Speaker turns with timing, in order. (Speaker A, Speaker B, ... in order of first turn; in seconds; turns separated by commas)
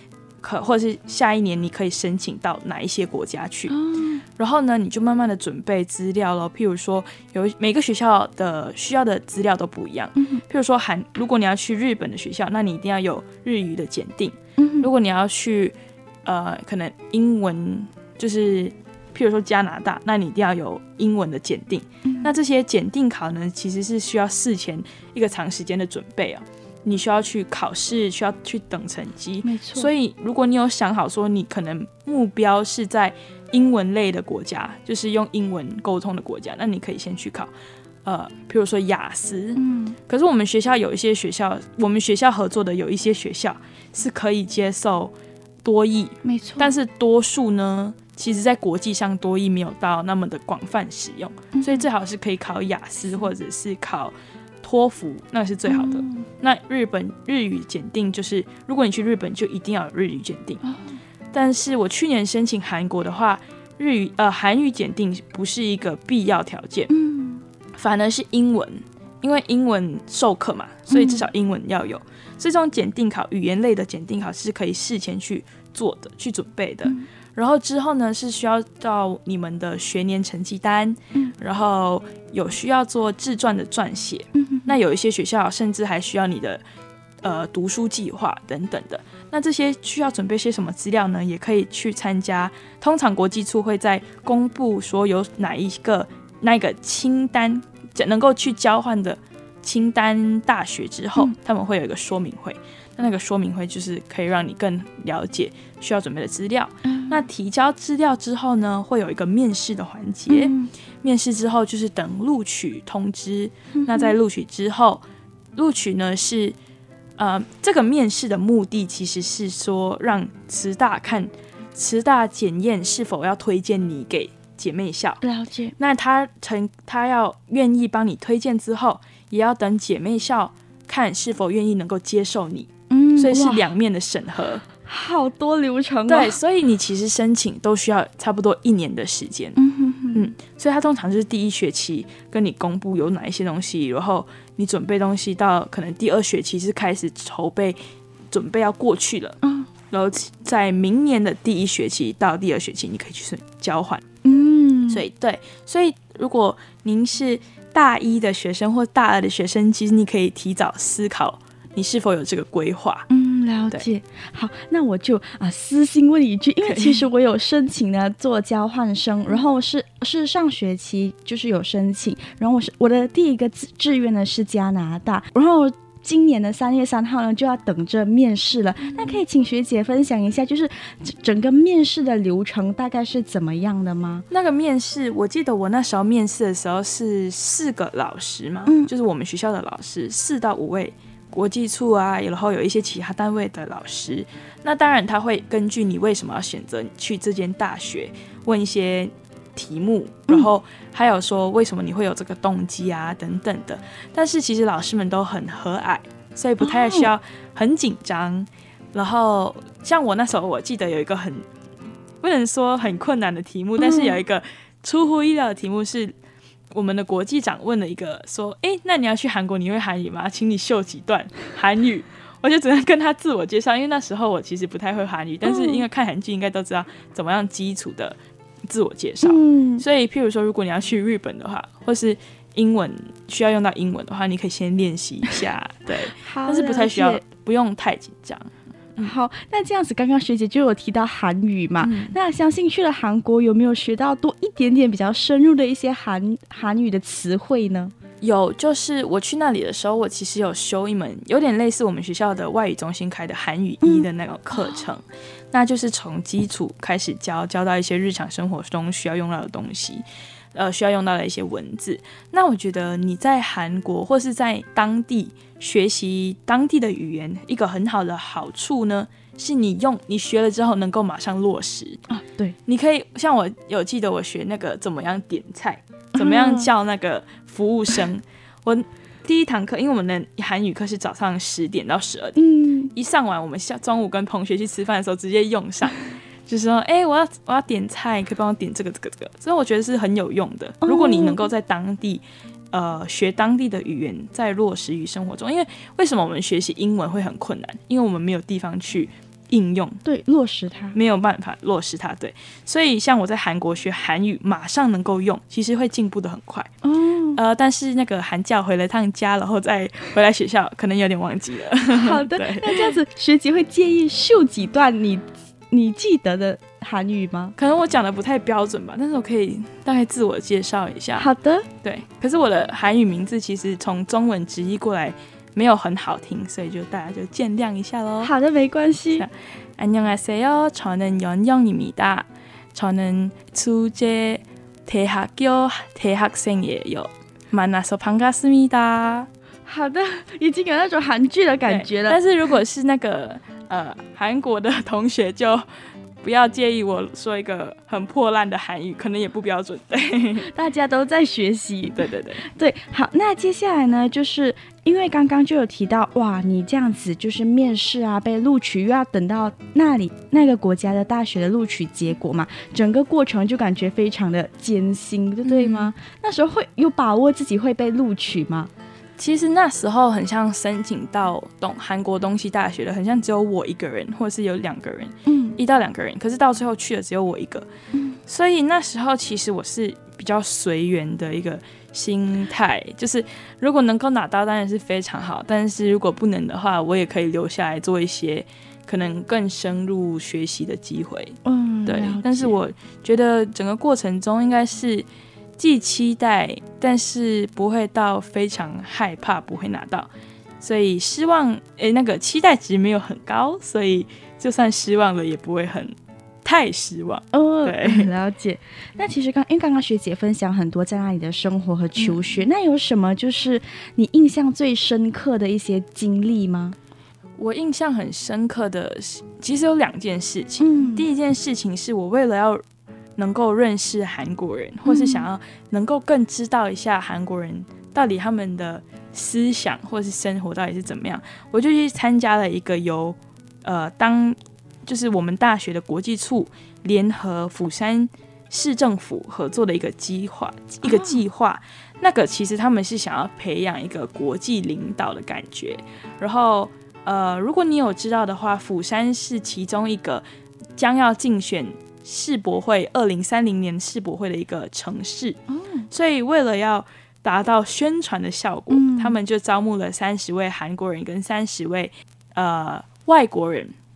Speaker A: 0.4-3.8, Speaker B: 3.7-4.2, Speaker A: 4.4-37.5, Speaker B: 10.2-10.4, Speaker B: 14.6-14.9, Speaker B: 22.1-22.3, Speaker B: 29.4-29.9, Speaker A: 38.0-45.1, Speaker B: 39.5-40.0, Speaker A: 45.6-60.6, Speaker B: 46.2-46.7, Speaker B: 51.5-51.8, Speaker B: 55.6-56.3, Speaker B: 60.6-61.0, Speaker A: 61.3-66.9, Speaker B: 66.9-67.4, Speaker A: 67.8-86.6, Speaker B: 70.9-71.2, Speaker B: 84.3-84.7, Speaker A: 87.2-115.0, Speaker B: 106.8-107.2, Speaker B: 110.3-110.7, Speaker B: 113.7-114.2, Speaker A: 115.5-116.5, Speaker A: 117.2-125.2, Speaker B: 125.2-125.7, Speaker A: 125.8-134.6, Speaker B: 132.9-133.7, Speaker B: 134.8-136.3, Speaker A: 136.1-139.6, Speaker B: 139.6-140.3, Speaker A: 140.1-147.8, Speaker A: 148.3-149.4, Speaker B: 149.4-149.7, Speaker A: 149.9-154.0, Speaker B: 154.2-155.0, Speaker A: 154.9-163.1, Speaker B: 163.1-184.2, Speaker A: 166.6-167.0, Speaker A: 184.3-211.4, Speaker B: 206.6-207.1, Speaker A: 212.2-216.1, Speaker B: 213.8-214.2, Speaker A: 216.7-228.2, Speaker B: 225.4-225.8, Speaker A: 228.7-239.1, Speaker B: 229.2-229.8, Speaker B: 236.2-237.2, Speaker B: 239.0-247.9, Speaker A: 241.8-242.1, Speaker A: 248.2-272.0, Speaker B: 253.8-254.8, Speaker B: 272.1-272.6, Speaker A: 272.7-282.4, Speaker B: 276.1-276.7, Speaker B: 282.4-282.9, Speaker A: 282.9-300.0, Speaker B: 290.8-291.4, Speaker B: 300.0-300.9, Speaker A: 300.9-306.7, Speaker B: 306.8-307.4, Speaker A: 307.4-312.9, Speaker B: 311.9-317.5, Speaker A: 317.6-321.3, Speaker B: 321.1-321.7, Speaker A: 321.8-328.3, Speaker B: 328.2-329.3, Speaker A: 329.1-339.3, Speaker B: 339.6-342.2, Speaker A: 341.6-345.6, Speaker A: 346.2-350.5, Speaker B: 350.4-368.7, Speaker A: 351.9-352.4, Speaker A: 365.4-365.9, Speaker A: 369.2-377.7, Speaker B: 375.2-375.6, Speaker A: 378.3-395.1, Speaker B: 391.4-392.6, Speaker A: 395.6-400.1, Speaker A: 400.6-408.1, Speaker B: 407.3-416.8, Speaker A: 417.4-422.6, Speaker B: 420.6-421.0, Speaker A: 423.2-450.2, Speaker B: 424.8-425.3, Speaker B: 440.8-441.2, Speaker A: 450.8-455.4, Speaker B: 455.5-455.9, Speaker A: 455.9-463.7, Speaker B: 458.7-459.2